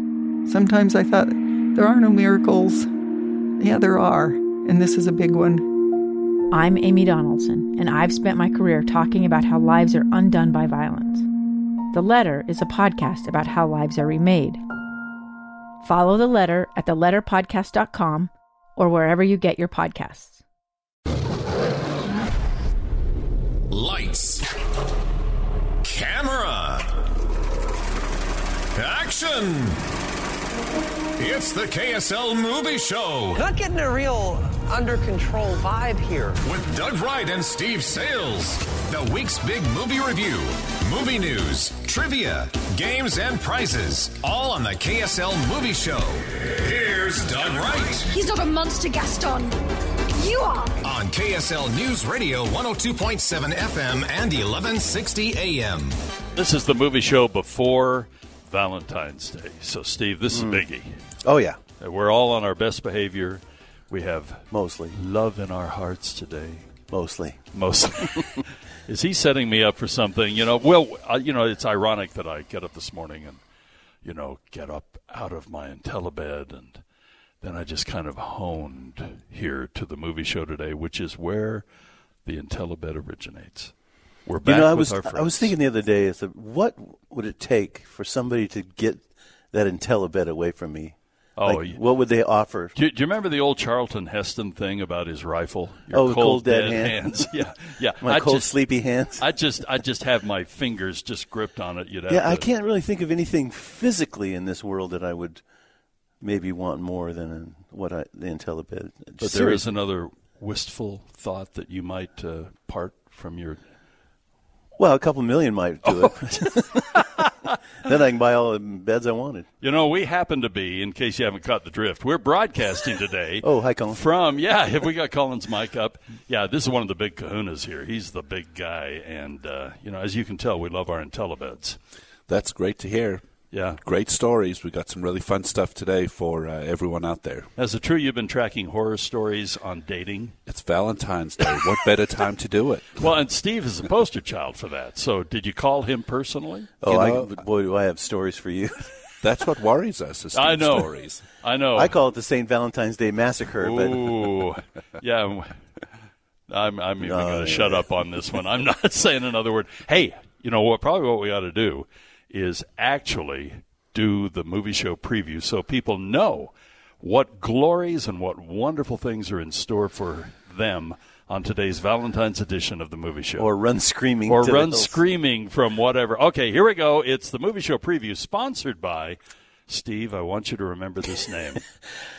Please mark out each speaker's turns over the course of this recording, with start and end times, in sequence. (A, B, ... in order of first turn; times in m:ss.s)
0:00.4-0:02.9 A
0:03.6-0:05.6 A
0:06.5-0:11.2 B
0:11.9-0:14.6 B
0:15.8-0:20.4 B
0:23.7-0:24.4 C
0:25.8-0:26.9 C
0:28.7-0:29.8 C
0:31.2-0:33.4 C
0:33.4-0:36.4 D
0:36.4-0:48.2 C
0:48.1-0:49.6 E
0:50.1-0:50.8 E
0:50.8-0:56.0 C
0:56.4-1:01.0 F
1:00.3-1:00.6 G
1:01.2-1:01.6 G
1:01.8-1:06.7 F
1:04.5-1:05.0 G
1:06.9-1:07.4 G
1:07.5-1:13.4 F
1:14.0-1:16.8 F
1:17.4-1:21.6 F
1:22.2-1:23.7 F
1:24.2-1:25.5 F
1:24.4-1:32.7 G
1:31.4-1:31.8 F
1:32.7-1:38.5 F
1:35.9-1:37.0 G
1:38.0-1:39.2 G
1:39.2-1:42.5 F
1:42.1-1:45.4 G
1:46.2-1:49.6 G
1:49.2-1:53.6 F
1:54.8-1:57.3 G
1:55.8-1:57.5 F
1:57.8-1:59.5 G
1:59.6-2:11.8 F
2:03.4-2:04.0 G
2:12.3-2:13.2 H
2:13.5-2:13.8 F
2:13.8-2:17.5 H
2:17.6-2:20.4 F
2:20.5-2:23.0 H
2:23.0-2:26.7 F
2:26.8-2:28.8 G
2:26.9-2:27.3 H
2:29.2-2:31.2 H
2:30.3-2:32.0 F
2:31.7-2:34.2 G
2:33.6-2:35.5 F
2:36.5-2:53.5 F
2:37.0-2:37.8 G
2:53.4-2:55.0 G
2:54.2-2:59.2 F
2:59.7-3:01.6 F